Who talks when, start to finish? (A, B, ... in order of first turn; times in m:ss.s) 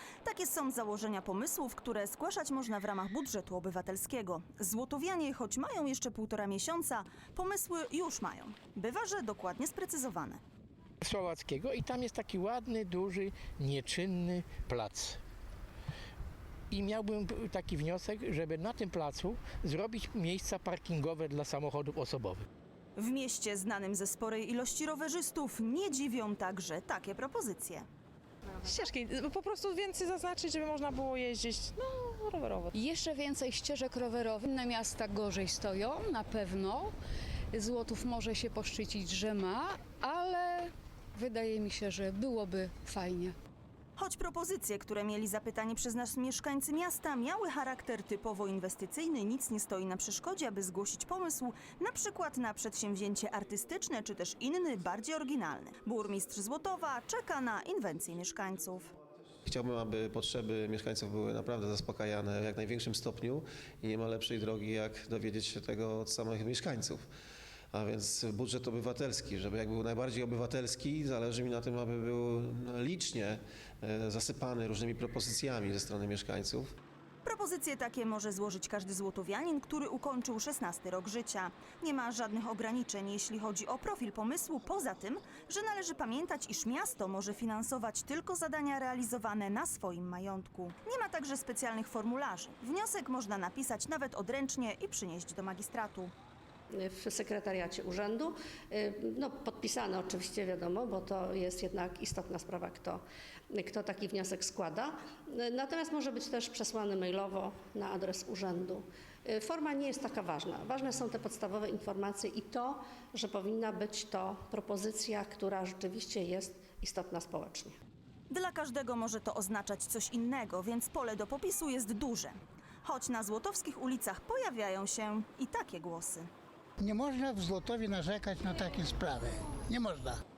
0:00.2-0:10.4 A
0:11.0-0:15.2 B
0:16.7-0:22.4 B
0:23.0-0:27.9 A
0:28.6-0:32.7 C
0:32.7-0:36.9 D
0:37.5-0:43.4 D
0:44.0-0:58.9 A
0:59.4-1:07.0 E
1:07.7-1:16.7 E
1:17.2-1:36.1 A
1:36.7-1:57.8 F
1:58.3-2:06.3 A
2:06.8-2:10.2 G